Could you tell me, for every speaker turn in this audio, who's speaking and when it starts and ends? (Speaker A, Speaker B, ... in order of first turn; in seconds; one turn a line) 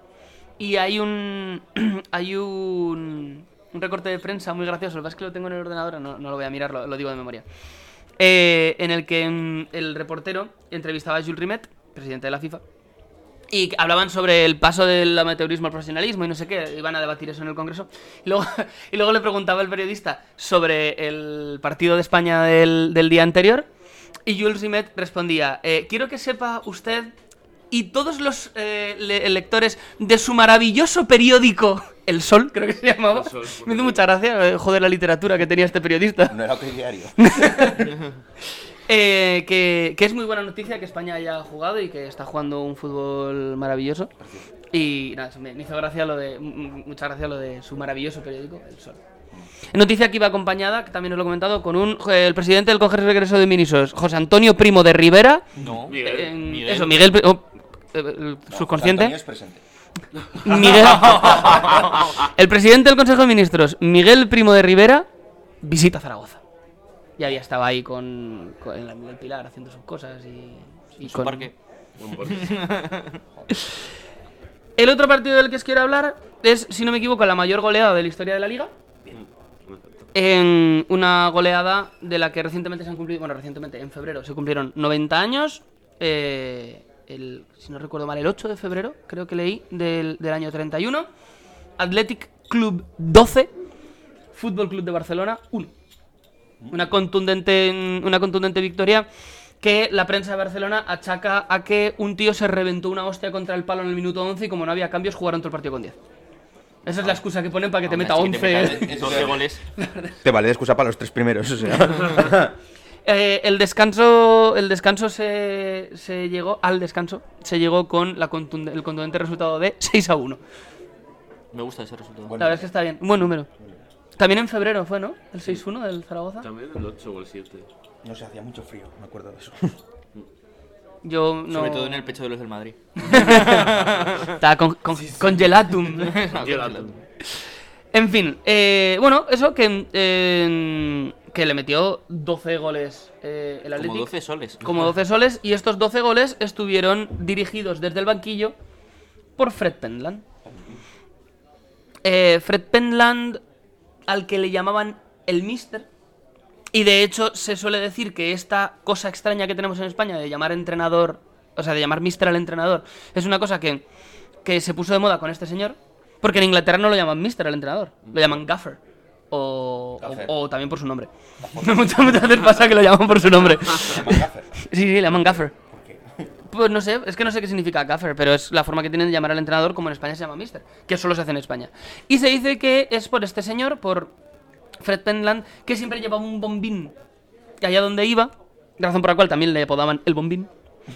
Speaker A: 0.6-7.4
Speaker A: 8.2-12.6
Speaker A: 13.5-23.7
Speaker A: 24.3-27.1
Speaker A: 27.7-36.4
Speaker B: 33.1-34.1
Speaker C: 36.3-37.8
Speaker A: 37.2-37.9
Speaker A: 38.9-44.1
Speaker C: 44.2-44.5
Speaker A: 44.7-49.0
Speaker A: 49.7-55.5
Speaker D: 55.6-57.1
Speaker B: 55.9-56.4
Speaker A: 56.0-59.1
Speaker C: 58.5-59.6
Speaker A: 60.4-65.1
Speaker D: 60.8-62.0
Speaker A: 65.6-66.4
Speaker A: 67.2-71.5
Speaker D: 71.0-71.5
Speaker B: 72.0-72.8
Speaker D: 72.3-73.2
Speaker A: 74.8-78.7
Speaker B: 79.1-80.0
Speaker A: 80.1-91.1
Speaker A: 91.8-93.5
Speaker A: 94.3-95.7
Speaker A: 96.7-99.1
Speaker A: 99.6-106.0
Speaker A: 106.8-110.2
Speaker D: 107.9-109.6
Speaker C: 108.6-109.4
Speaker C: 110.2-112.6
Speaker A: 113.0-120.4
Speaker D: 121.5-122.4
Speaker C: 122.3-122.7
Speaker A: 122.4-123.5
Speaker A: 124.2-126.5
Speaker B: 126.4-127.7
Speaker C: 128.0-129.8
Speaker A: 131.0-132.1
Speaker D: 131.5-134.3
Speaker A: 133.0-136.2
Speaker B: 133.8-134.1
Speaker D: 136.0-137.0
Speaker B: 136.3-136.9
Speaker A: 137.3-148.6
Speaker D: 143.8-144.7
Speaker A: 149.4-150.2
Speaker C: 150.4-150.8
Speaker A: 152.0-153.4
Speaker A: 154.1-155.9
Speaker A: 156.7-163.8
Speaker A: 164.4-168.8
Speaker A: 169.3-175.5
Speaker C: 170.0-170.3
Speaker C: 171.4-172.1
Speaker C: 173.7-174.6
Speaker C: 175.6-176.3
Speaker A: 176.5-184.1
Speaker A: 184.8-186.9
Speaker A: 187.6-190.5